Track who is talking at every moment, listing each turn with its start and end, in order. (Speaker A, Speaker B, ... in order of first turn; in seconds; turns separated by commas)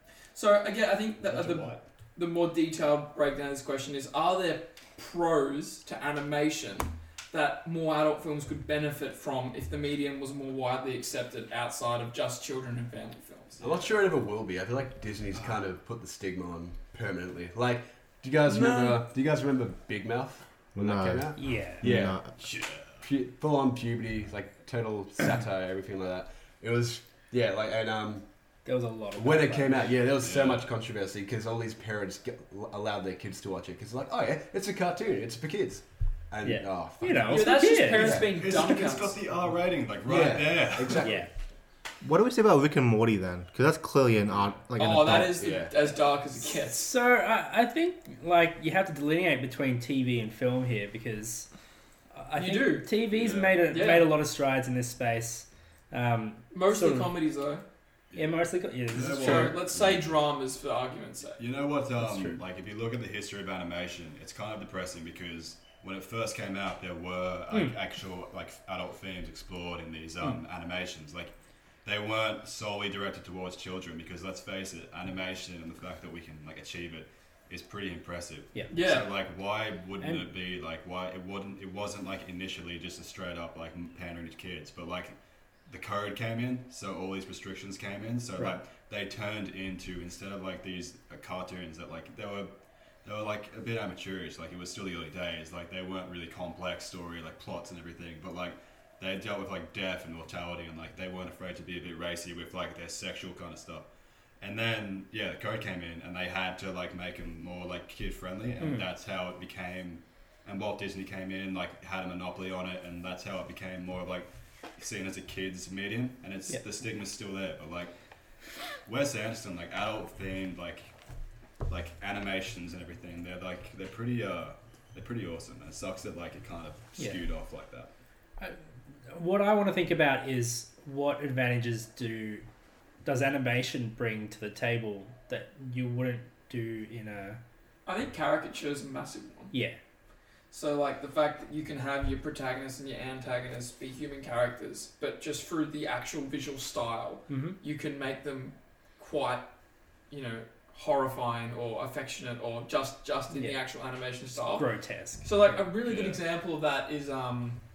Speaker A: 0.3-13.7, Speaker B: 1.2-1.8, Speaker B: 13.6-13.9, Speaker C: 13.6-22.4, Speaker B: 15.3-15.6, Speaker A: 18.5-18.9, Speaker D: 20.8-22.3, Speaker E: 21.4-21.9, Speaker B: 22.4-23.0, Speaker C: 23.0-28.2, Speaker E: 28.6-29.9, Speaker C: 29.2-38.3, Speaker B: 30.2-30.7, Speaker E: 36.4-38.3, Speaker A: 37.3-39.2, Speaker B: 38.2-41.1, Speaker C: 40.0-41.3, Speaker E: 41.0-41.3, Speaker D: 42.0-45.5, Speaker A: 44.8-46.9, Speaker C: 45.4-45.8, Speaker E: 46.6-51.5, Speaker E: 52.1-57.1, Speaker A: 52.4-52.9, Speaker B: 53.1-53.6, Speaker A: 53.7-54.1, Speaker A: 56.5-57.6, Speaker B: 58.1-60.2, Speaker E: 58.1-59.6, Speaker A: 59.0-61.4, Speaker B: 61.4-71.3, Speaker E: 62.0-62.4, Speaker B: 71.8-85.2, Speaker A: 78.7-79.1, Speaker E: 80.0-80.3, Speaker B: 85.7-92.5, Speaker B: 93.0-103.9, Speaker B: 104.4-117.9, Speaker E: 108.6-108.9, Speaker B: 118.8-120.9, Speaker B: 121.7-127.9, Speaker E: 129.1-132.4, Speaker E: 133.0-137.4, Speaker A: 137.9-139.5, Speaker E: 139.5-139.8, Speaker A: 140.5-149.5, Speaker E: 147.3-147.6, Speaker A: 150.1-154.7, Speaker E: 153.3-153.6, Speaker E: 154.4-155.3, Speaker A: 155.2-157.6, Speaker B: 155.8-156.2